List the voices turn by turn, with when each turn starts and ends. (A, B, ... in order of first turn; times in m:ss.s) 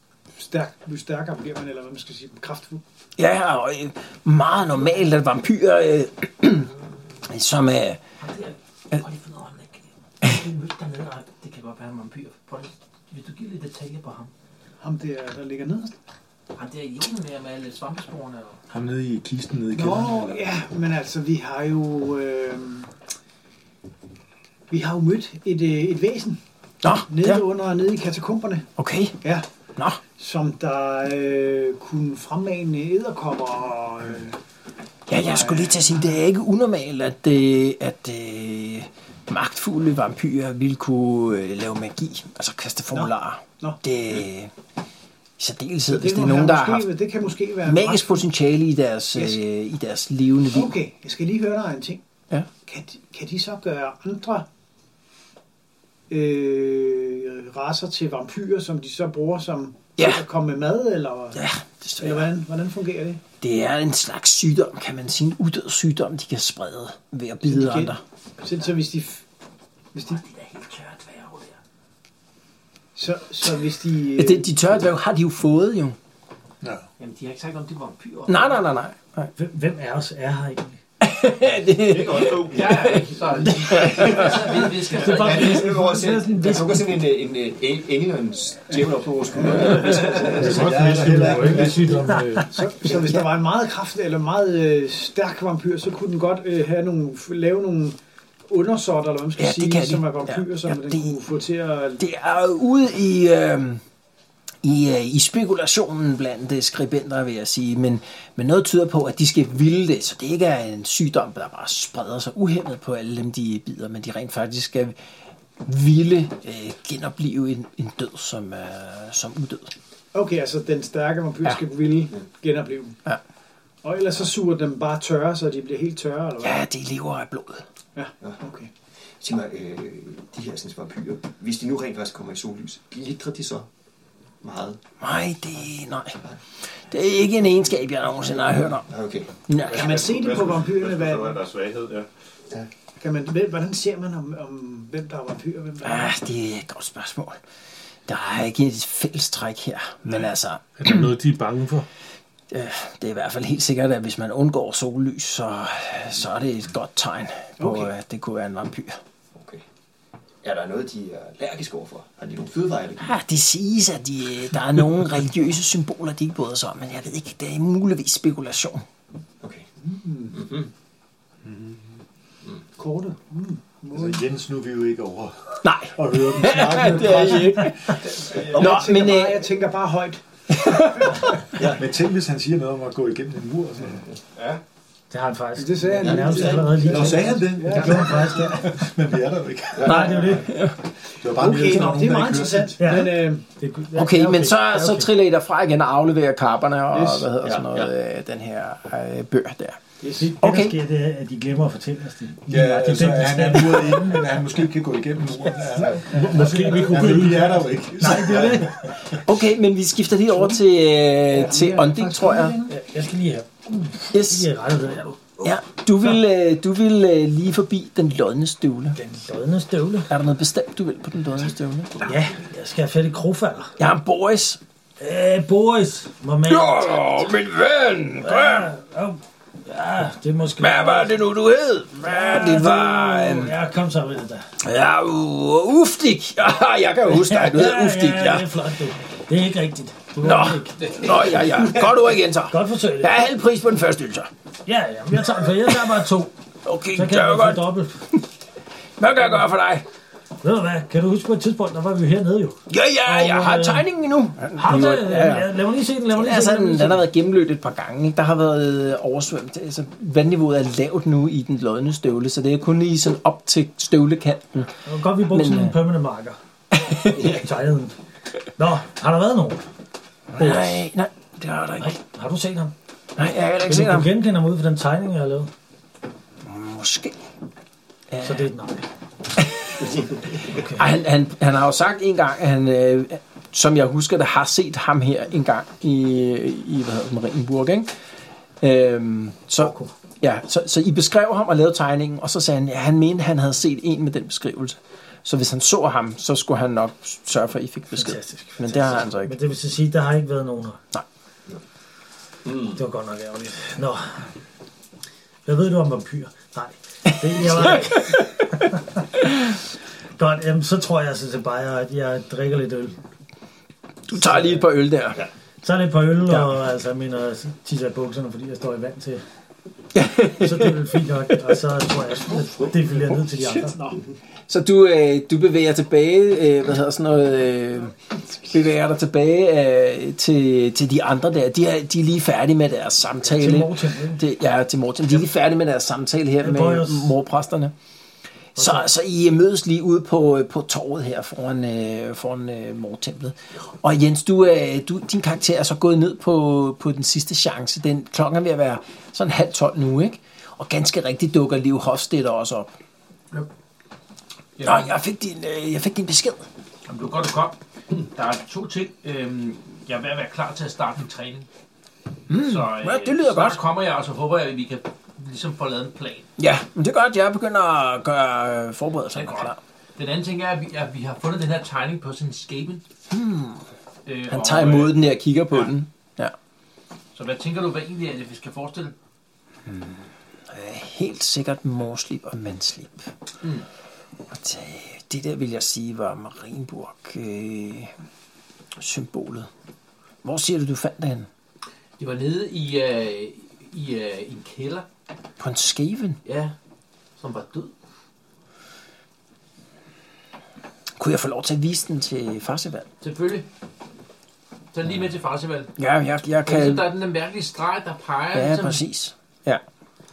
0:00.4-0:02.8 A
0:03.2-0:06.7 B
0:07.3-0:08.0 B
0:08.2-0:14.3 C
0:14.8-0:15.9 A
0:16.6-0:18.6 C
0:18.7-0:20.6 D
0:19.7-0:22.9 A
0:24.7-0:26.4 A
0:26.8-0:27.5 B
0:27.1-0:28.7 A
0:28.8-0:29.2 B
0:30.2-0:34.4 A
0:35.1-0:44.5 B
0:35.1-0:36.2 A
0:42.9-0:43.8 A
0:45.4-0:46.9 B
0:45.9-0:48.2 A
0:47.6-0:50.8 B
0:50.5-0:52.0 A
0:52.7-0:54.5 A
0:56.1-1:01.4 A
1:00.0-1:00.2 B
1:01.3-1:02.3 B
1:02.0-1:03.2 A
1:03.4-1:08.0 B
1:07.4-1:09.2 A
1:09.9-1:10.2 A
1:10.0-1:11.6 C
1:13.0-1:14.6 A
1:14.1-1:16.0 B
1:17.0-1:18.6 C
1:18.3-1:19.3 B
1:19.4-1:20.8 E
1:21.0-1:23.1 B
1:21.8-1:23.0 F
1:22.5-1:25.8 C
1:23.6-1:24.5 B
1:24.0-1:31.6 G
1:24.9-1:26.8 E
1:29.6-1:32.1 D
1:30.4-1:32.5 H
1:31.4-1:32.6 E
1:32.5-1:42.0 A
1:39.4-1:41.2 B
1:42.0-1:43.8 B
1:44.6-1:55.0 B
1:55.6-1:59.7 B
2:00.1-2:03.0 A
2:03.8-2:06.6 A
2:06.4-2:07.6 B
2:08.0-2:08.7 A
2:09.2-2:13.7 G
2:14.4-2:14.8 G
2:15.0-2:16.2 B
2:16.9-2:18.9 B
2:18.8-2:19.3 G
2:19.5-2:20.0 B
2:19.6-2:22.1 F
2:19.7-2:21.4 A
2:23.0-2:26.1 A
2:25.8-2:27.4 B
2:28.1-2:31.2 B
2:30.8-2:31.9 H
2:32.5-2:39.0 B
2:37.6-2:37.9 A
2:39.4-2:39.6 G
2:40.4-2:43.2 G
2:43.0-2:48.8 B
2:49.4-2:49.7 G
2:49.8-2:50.4 A
2:50.3-2:50.7 G
2:51.5-2:51.8 D
2:52.8-2:54.2 A
2:53.9-2:57.9 D
2:55.6-2:59.6 B
2:58.2-3:01.1 A
2:58.3-2:58.8 G
3:00.5-3:01.2 B
3:01.6-3:01.8 G
3:01.6-3:04.1 D
3:05.1-3:08.7 E
3:05.6-3:08.4 A
3:06.0-3:06.9 G
3:06.3-3:10.5 D
3:09.8-3:10.4 G
3:09.8-3:10.5 E
3:09.9-3:10.8 B
3:11.2-3:12.8 D
3:11.3-3:13.4 A
3:12.8-3:15.1 E
3:14.0-3:19.8 B
3:16.9-3:17.3 A
3:17.4-3:17.9 G
3:20.2-3:24.3 E
3:20.4-3:20.8 B
3:22.5-3:29.2 D
3:26.1-3:27.6 H
3:26.1-3:28.8 E
3:29.2-3:32.6 B
3:31.3-3:32.8 A
3:32.7-3:35.4 E
3:34.1-3:34.5 B
3:35.4-3:39.0 B
3:39.0-3:40.1 E
3:40.1-3:42.0 B
3:42.0-3:43.7 E
3:43.8-3:44.6 B
3:45.0-3:47.0 E
3:46.5-3:48.7 B
3:48.2-3:51.2 E
3:50.6-3:53.5 B
3:52.0-3:54.5 E
3:54.6-3:58.5 B
3:57.1-4:00.8 E
4:00.2-4:04.3 B
4:00.8-4:01.1 C
4:02.5-4:03.2 E
4:04.7-4:06.3 E
4:06.6-4:08.2 B
4:06.9-4:08.0 E
4:09.0-4:09.8 B
4:10.4-4:13.9 E
4:12.7-4:25.8 B
4:14.6-4:17.1 E
4:24.9-4:26.4 E
4:26.7-4:27.4 B
4:27.1-4:28.0 E
4:28.6-4:29.6 E
4:30.3-4:32.0 B
4:30.4-4:30.9 E
4:31.8-4:32.7 E
4:33.2-4:34.1 B
4:33.7-4:35.5 E
4:36.4-4:37.2 B
4:38.1-4:38.5 B
4:38.2-4:38.8 E
4:39.4-4:39.9 B
4:40.5-4:40.8 E
4:40.6-4:47.9 B
4:48.6-4:59.4 B
4:49.6-4:49.9 E
4:58.0-5:00.8 E
5:02.5-5:02.8 G
5:02.6-5:04.3 E
5:05.5-5:08.8 E
5:07.1-5:08.4 B
5:10.2-5:13.0 E
5:14.1-5:15.2 B
5:14.1-5:14.6 E
5:15.6-5:19.2 E
5:20.0-5:20.8 B
5:20.3-5:23.9 E
5:24.5-5:37.7 B
5:33.2-5:34.2 E
5:36.4-5:37.1 E
5:38.6-5:52.7 B
5:38.6-5:38.9 E
5:54.6-5:54.9 C
5:54.6-5:56.5 B
5:56.9-6:01.5 C
6:02.3-6:03.6 B
6:02.3-6:06.3 C
6:06.4-6:09.6 B
6:09.2-6:12.8 C
6:13.1-6:13.6 B
6:14.1-6:15.7 C
6:14.3-6:16.3 B
6:17.1-6:18.9 C
6:19.6-6:23.1 B
6:24.3-6:27.9 B
6:28.8-6:29.5 B
6:30.2-6:31.3 B
6:32.0-6:34.9 C
6:35.4-6:36.2 B
6:36.3-6:36.5 C
6:37.2-6:37.7 C
6:41.0-6:42.9 B
6:43.0-6:43.5 C
6:44.7-6:45.7 C
6:45.8-6:46.9 B
6:46.4-6:48.8 C
6:48.3-6:49.6 B